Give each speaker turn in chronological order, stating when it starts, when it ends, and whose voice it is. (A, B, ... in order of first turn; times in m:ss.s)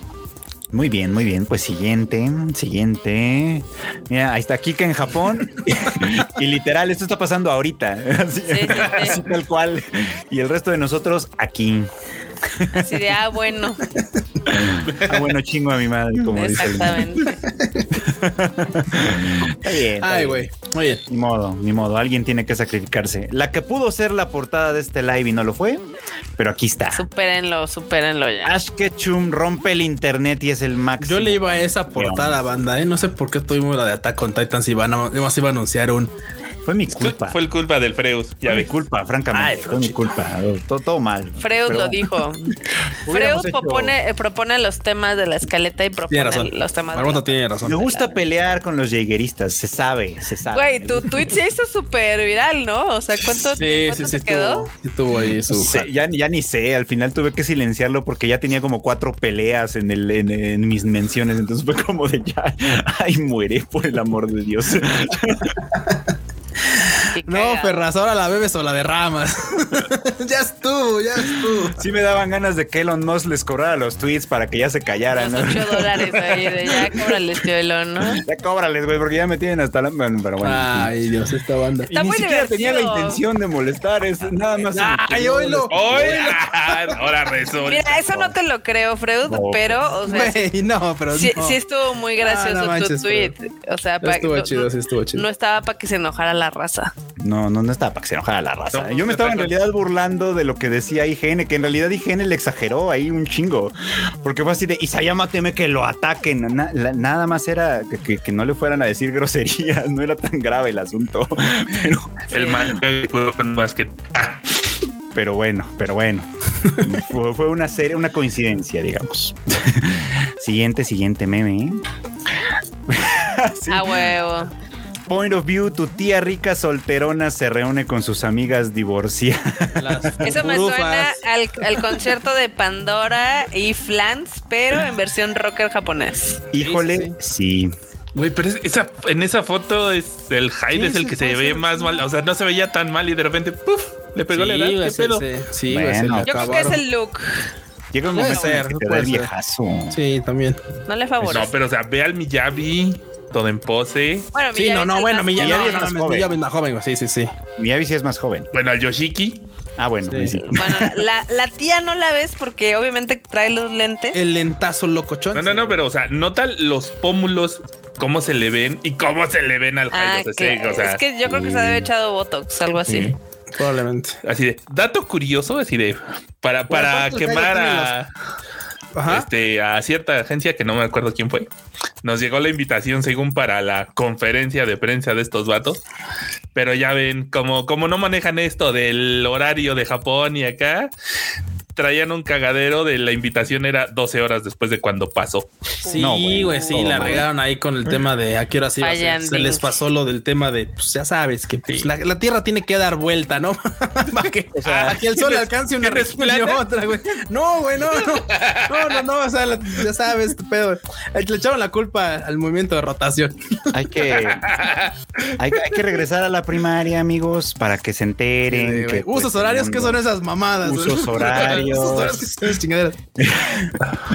0:00.7-0:11.9 A
0:08.4-0:09.2 B
0:12.5-0:12.8 A
0:12.7-0:13.8 B
0:14.0-0:14.7 C
0:14.5-0:17.1 A
0:14.8-0:15.2 D
0:16.2-0:17.4 B
0:17.2-0:17.9 C
0:18.0-0:20.4 A
0:20.0-0:21.0 C
0:21.1-0:25.8 A
0:26.4-0:27.0 A
0:26.9-0:28.6 B
0:28.4-0:32.4 A
0:31.0-0:36.1 C
0:36.6-0:37.4 A
0:37.0-0:38.7 D
0:38.4-0:42.1 A
0:39.3-0:40.1 C
0:41.4-0:42.6 B
0:43.0-0:43.9 A
0:43.1-0:48.2 B
0:46.1-0:47.9 C
0:47.6-0:51.1 A
0:50.5-0:54.7 B
0:53.5-0:55.9 C
0:55.5-1:05.6 A
1:05.7-1:06.0 C
1:06.6-1:11.8 C
1:07.1-1:07.8 B
1:11.8-1:16.2 A
1:15.1-1:18.2 B
1:18.2-1:20.9 A
1:20.4-1:21.9 C
1:21.9-1:23.2 B
1:21.9-1:26.3 A
1:24.7-1:26.8 C
1:25.7-1:28.2 D
1:27.6-1:30.5 B
1:29.3-1:29.8 A
1:30.0-1:31.6 C
1:31.1-1:36.9 B
1:32.2-1:33.3 C
1:34.0-1:35.2 C
1:37.2-1:52.3 A
1:38.7-1:39.6 D
1:52.3-1:52.7 B
1:52.3-1:54.4 D
1:55.1-2:01.8 A
2:02.9-2:04.1 A
2:03.7-2:04.5 B
2:05.1-2:10.1 A
2:09.8-2:11.2 C
2:10.2-2:16.4 B
2:16.5-2:17.7 A
2:16.6-2:17.2 C
2:18.1-2:25.2 D
2:20.7-2:21.6 A
2:24.3-2:26.8 C
2:25.7-2:26.4 A
2:26.2-2:27.4 B
2:27.9-2:30.0 A
2:28.1-2:29.3 C
2:28.1-2:28.5 B
2:29.9-2:30.6 C
2:30.8-2:31.5 B
2:31.2-2:34.3 D
2:34.3-2:35.9 B
2:34.5-2:37.3 C
2:35.4-2:36.4 A
2:37.6-2:38.5 A
2:38.5-2:39.4 D
2:39.8-2:40.9 A
2:40.1-2:40.4 C
2:40.4-2:44.2 B
2:44.1-2:45.8 C
2:45.3-2:51.0 D
2:49.9-2:53.1 B
2:51.2-2:51.9 A
2:52.8-2:53.2 D
2:53.5-2:54.2 C
2:54.2-2:58.1 D
2:56.7-2:57.9 C
2:58.9-2:59.3 C
2:59.1-3:01.5 D
3:02.0-3:05.8 D
3:06.5-3:10.9 D
3:11.8-3:15.5 D
3:15.8-3:16.8 B
3:15.9-3:33.8 C
3:16.0-3:17.3 A
3:18.8-3:19.6 B
3:24.2-3:26.6 D
3:24.6-3:25.0 A
3:27.9-3:29.0 D
3:33.7-3:34.5 A
3:34.1-3:35.3 D
3:35.4-3:40.0 A
3:38.5-3:43.0 C
3:40.6-3:42.2 A
3:41.1-3:42.2 D
3:43.2-3:43.8 A